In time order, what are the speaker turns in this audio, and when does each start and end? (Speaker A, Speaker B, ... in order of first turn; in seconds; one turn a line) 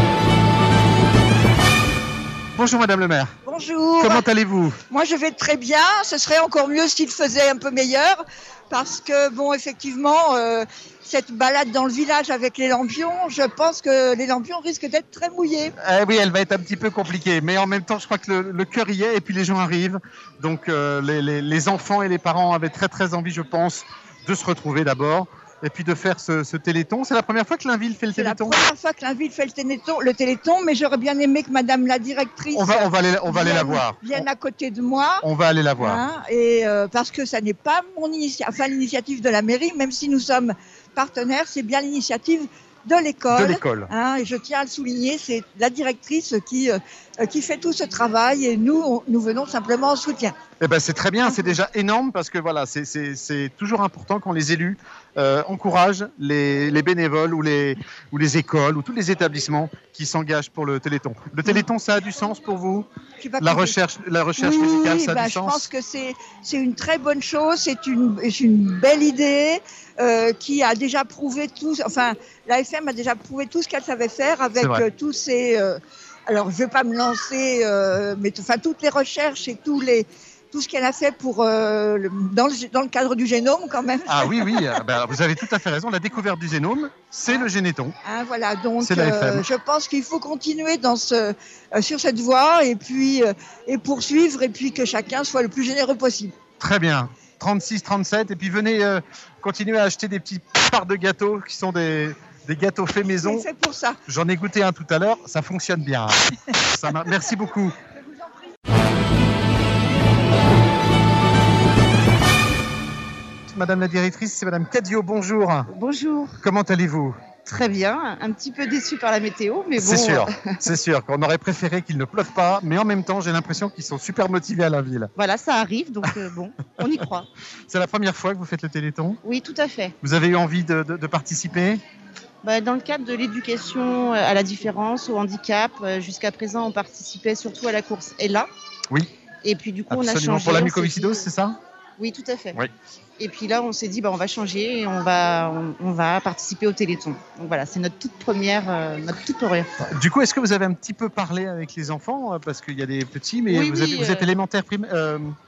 Speaker A: 2.5-3.3
Speaker B: 3.5-4.2
Speaker A: 4.0-4.8
Speaker B: 4.9-15.7
Speaker A: 15.8-28.6
Speaker B: 28.2-35.2
Speaker A: 32.5-34.3
Speaker A: 35.2-36.0
Speaker B: 35.8-50.3
Speaker A: 43.3-43.9
Speaker A: 50.6-62.9
Speaker B: 63.2-63.8
Speaker A: 63.4-65.7
Speaker B: 64.4-84.8
Speaker A: 74.6-74.8
Speaker A: 84.1-88.0
Speaker B: 88.0-96.3
Speaker A: 88.8-89.5
Speaker A: 96.6-103.5
Speaker B: 103.2-104.0
Speaker A: 104.1-107.8
Speaker A: 113.5-115.7
Speaker C: 115.7-116.3
Speaker A: 116.4-117.2
Speaker C: 117.5-120.4
Speaker A: 119.8-125.1
Speaker C: 125.2-127.3
Speaker A: 127.7-129.2
Speaker C: 129.2-129.9
Speaker A: 130.0-131.8
Speaker C: 132.4-138.5
Speaker C: 139.4-141.3
Speaker A: 139.9-141.6
Speaker C: 142.0-142.6
Speaker C: 143.2-149.7
Speaker A: 149.8-155.3
Speaker C: 153.5-154.3